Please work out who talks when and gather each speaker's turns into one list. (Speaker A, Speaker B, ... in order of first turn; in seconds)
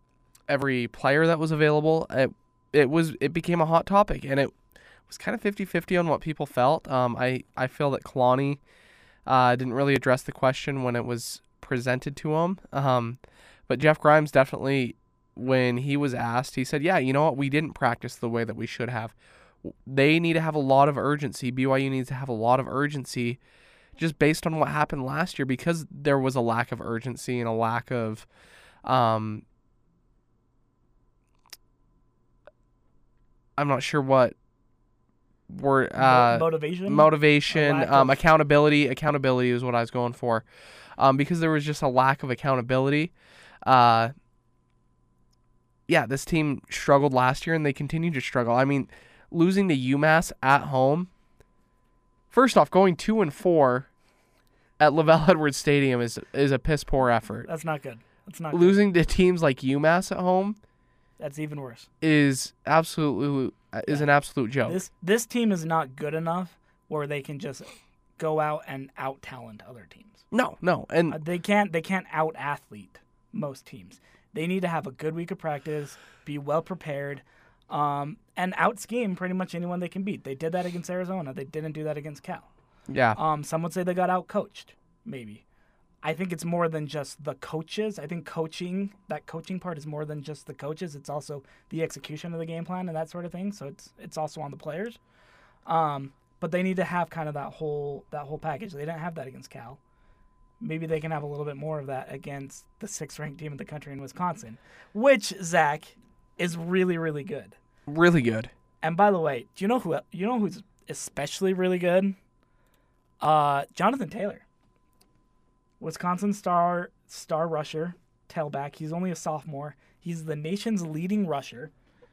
Speaker A: 0.5-4.5, 5.1-8.6, 9.3-23.4, 24.0-28.3, 28.8-29.4, 33.6-34.4, 35.5-40.5, 41.0-43.1, 43.6-44.1, 45.9-51.1, 52.3-53.9, 54.8-57.5, 58.5-60.6, 62.0-64.8, 70.3-71.2, 82.9-83.2, 107.9-108.5
Speaker B: 36.0-38.2, 57.5-58.8, 61.2-61.9, 64.6-70.2, 71.1-82.5, 83.2-85.4, 86.0-95.0, 95.7-99.8, 100.6-107.6, 108.8-112.2, 113.2-114.5, 115.8-121.7